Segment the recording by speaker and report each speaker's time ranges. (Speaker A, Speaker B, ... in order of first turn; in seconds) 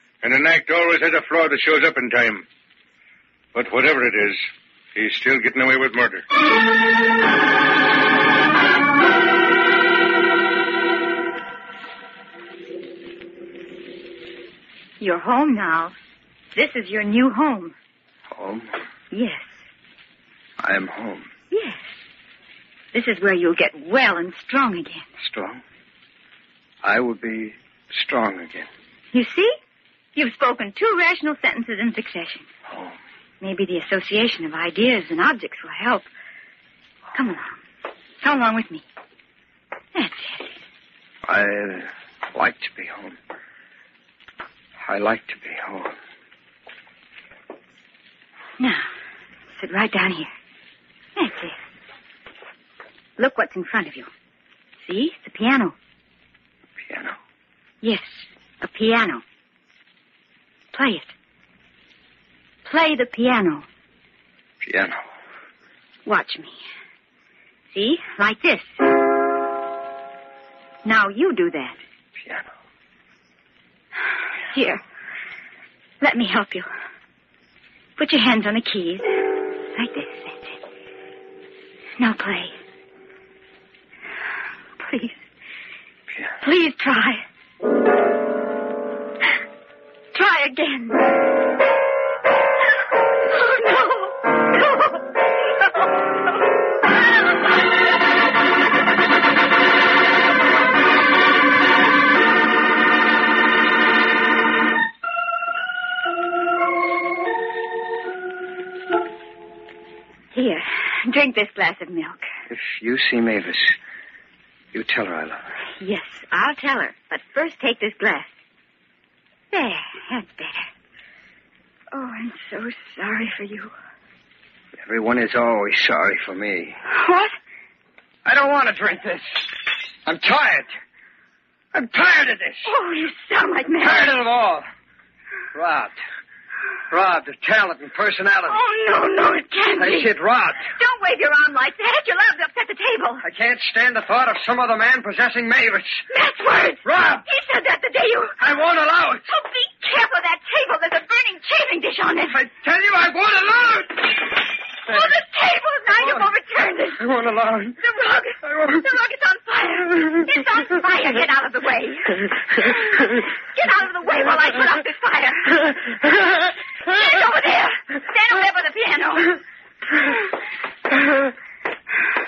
Speaker A: 0.2-2.4, 3.5-4.4, 4.9-6.2
Speaker B: 15.0-15.9, 16.5-17.7, 19.1-19.6, 21.5-21.8, 22.9-25.0, 29.1-29.5, 30.1-32.5, 33.4-36.1, 37.1-37.6, 38.2-38.8, 39.9-40.5, 48.6-48.8, 49.5-50.3, 51.1-51.6, 53.2-54.1, 54.8-55.7, 57.8-59.2, 60.7-61.1, 62.6-63.6, 66.0-66.6, 67.7-68.9, 70.8-71.8, 74.5-74.8, 76.0-76.7, 78.0-80.6, 82.0-82.5, 84.8-85.2, 86.4-87.2, 90.1-91.1, 93.3-94.9, 110.3-112.2, 115.8-118.3, 119.5-120.7, 121.9-123.7, 126.9-127.3, 132.6-134.1, 138.5-140.1, 140.6-143.2, 146.1-148.4, 149.3-152.4, 154.9-157.0, 157.8-169.4
Speaker C: 18.3-18.8, 20.6-21.3, 25.2-25.6, 26.8-28.7, 32.7-32.9, 41.2-43.2, 44.8-45.9, 56.9-57.2, 64.6-65.0, 72.2-72.5, 112.5-113.7, 114.7-115.4, 124.8-126.8, 128.2-129.5, 130.0-130.7, 131.7-132.7, 133.8-134.6, 135.5-135.9, 136.9-138.6, 139.8-140.7, 143.2-146.0, 146.8-147.3, 148.4-149.3, 152.3-154.2, 157.0-157.8